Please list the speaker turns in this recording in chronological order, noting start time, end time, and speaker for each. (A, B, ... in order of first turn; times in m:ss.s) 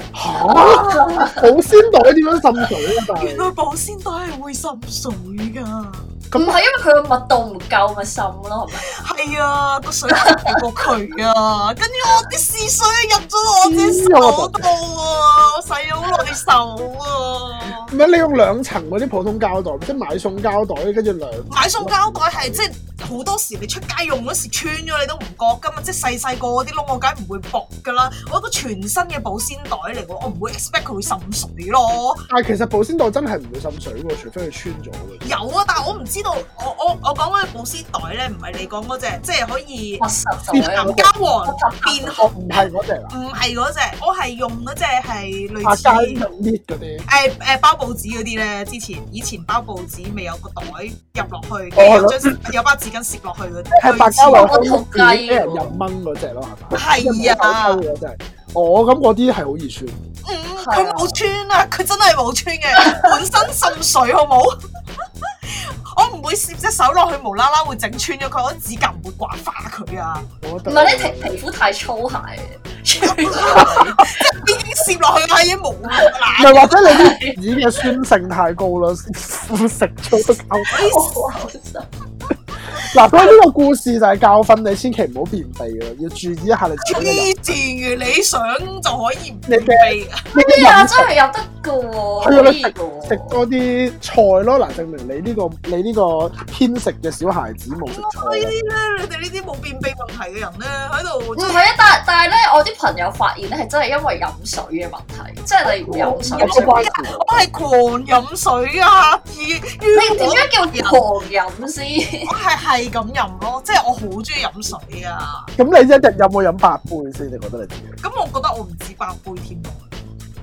0:00.1-0:03.5 A
0:00.5-0:01.5 B
0:03.2-0:06.0 C
0:06.3-0:06.6 A
0:06.3-0:08.9 B
0:08.9-0:17.9 C
0:10.2-0:10.6 B
0:13.6-0:14.7 A
0:17.9-0:22.6 A
0:21.5-0:32.2 C
0:32.3-0:35.4 A
0:35.2-0:40.0 C
0:40.0-0:42.3 B
0:40.5-0:41.1 A
0:40.7-0:42.3 C
0:42.1-0:43.1 A
0:43.1-0:46.2 C
0:45.6-0:47.0 A
0:47.1-0:54.6 C
0:51.8-0:52.4 A
0:53.7-1:00.1 A
0:54.3-0:55.8 B
0:56.7-0:57.8 C
1:00.2-1:04.5 C
1:00.6-1:01.2 B
1:02.8-1:03.0 B
1:05.5-1:10.2 C
1:10.4-1:11.4 A
1:10.6-1:14.3 B
1:13.0-1:17.0 C
1:16.4-1:20.7 A
1:16.8-1:17.4 B
1:20.7-1:21.2 C
1:20.7-1:21.9 B
1:22.9-1:27.3 A
1:26.8-1:30.2 C
1:29.5-1:31.1 A
1:30.3-1:33.4 B
1:32.2-1:38.5 A
1:37.8-1:41.6 C
1:41.4-1:46.9 B
1:45.7-1:47.5 A
1:46.4-1:51.0 C
1:49.9-1:52.3 B
1:52.2-1:55.5 C
1:55.6-1:57.9 A
1:58.0-1:59.9 C